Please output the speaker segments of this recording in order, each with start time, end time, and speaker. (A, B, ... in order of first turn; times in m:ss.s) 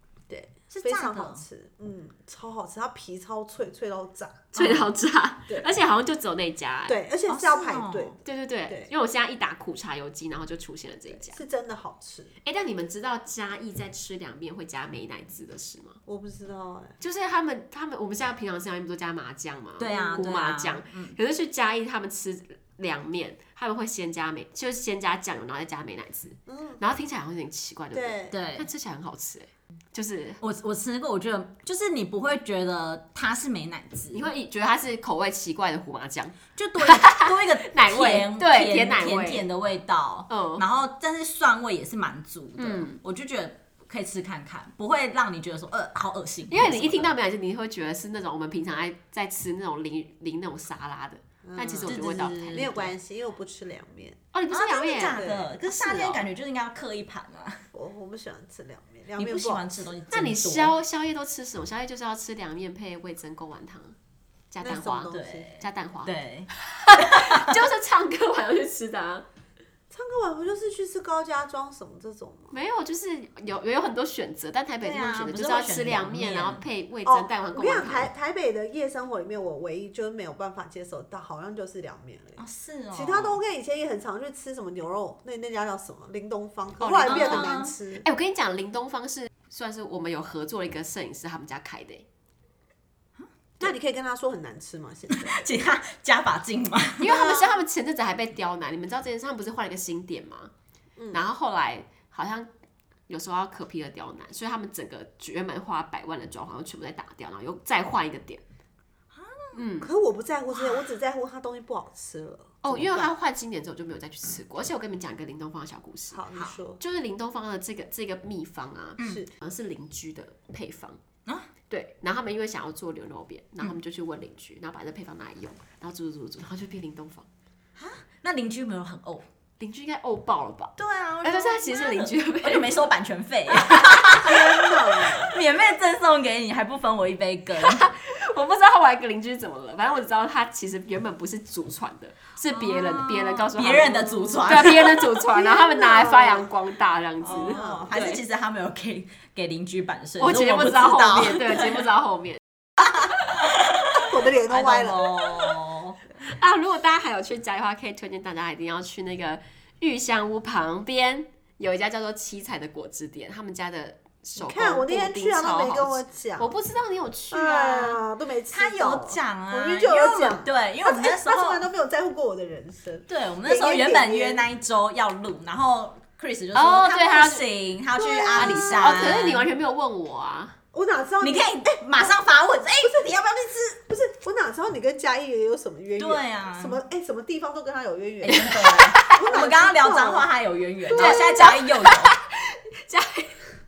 0:00.3-0:04.7 A
0:00.7-0:01.4 B
0:04.5-0:07.0 C
0:06.9-0:08.9 A
0:07.3-0:08.2 B
0:08.2-0:11.4 C
0:11.1-0:12.3 A
0:12.4-0:16.0 C
0:16.0-0:16.9 A
0:17.0-0:30.4 C
0:19.8-0:21.2 B
0:19.9-0:20.3 A
0:26.5-0:26.8 A
0:27.9-0:28.4 A
0:28.3-0:28.7 B
0:30.4-0:34.2 B
0:34.1-0:39.4 C
0:36.5-0:47.1 B
0:40.3-0:40.6 C
0:42.6-0:43.0 C
0:46.5-0:52.8 C
0:51.4-0:54.2 A
0:51.8-0:52.9 B
0:54.3-0:55.2 C
0:54.5-0:57.6 B
0:55.1-0:56.2 A
0:55.8-0:56.1 C
0:57.7-0:59.7 A
0:59.2-1:00.8 B
1:00.1-1:04.0 C
1:04.5-1:09.2 C
1:04.6-1:05.5 A
1:05.1-1:07.6 B
1:09.9-1:12.5 A
1:12.5-1:18.1 C
1:14.8-1:16.6 B
1:17.0-1:28.0 A
1:22.4-1:23.4 B
1:26.8-1:32.0 C
1:27.1-1:27.7 B
1:33.6-1:35.4 A
1:35.1-1:37.4 B
1:37.0-1:40.5 C
1:41.0-1:41.2 A
1:41.1-1:42.5 C
1:43.1-1:48.4 C
1:49.1-1:49.6 B
1:49.5-1:49.9 C
1:49.8-1:53.1 A
1:50.6-1:50.8 B
1:52.6-1:56.2 C
1:56.1-1:56.8 A
1:56.8-2:01.0 C
1:59.0-1:59.2 B
1:59.0-1:59.3 A
2:01.7-2:07.3 C
2:07.8-2:09.2 B
2:09.6-2:12.8 C
2:10.8-2:17.8 B
2:14.2-2:15.4 A
2:17.6-2:28.2 C
2:22.5-2:25.1 B
2:25.3-2:26.5 A
2:27.2-2:31.8 B
2:27.3-2:27.9 A
2:30.2-2:32.4 C
2:32.8-2:36.0 B
2:33.9-2:35.5 A
2:36.2-2:48.0 C
2:44.4-2:46.5 A
2:47.3-2:54.4 A
2:48.5-2:51.6 B
2:53.1-2:59.5 B
2:56.5-2:57.4 C
2:57.9-2:59.2 A
2:58.4-3:00.6 C
3:00.7-3:02.2 A
3:01.2-3:03.1 B
3:02.8-3:10.3 A
3:06.0-3:06.8 B
3:08.2-3:12.1 B
3:08.5-3:09.2 C
3:10.9-3:11.4 A
3:10.9-3:13.4 C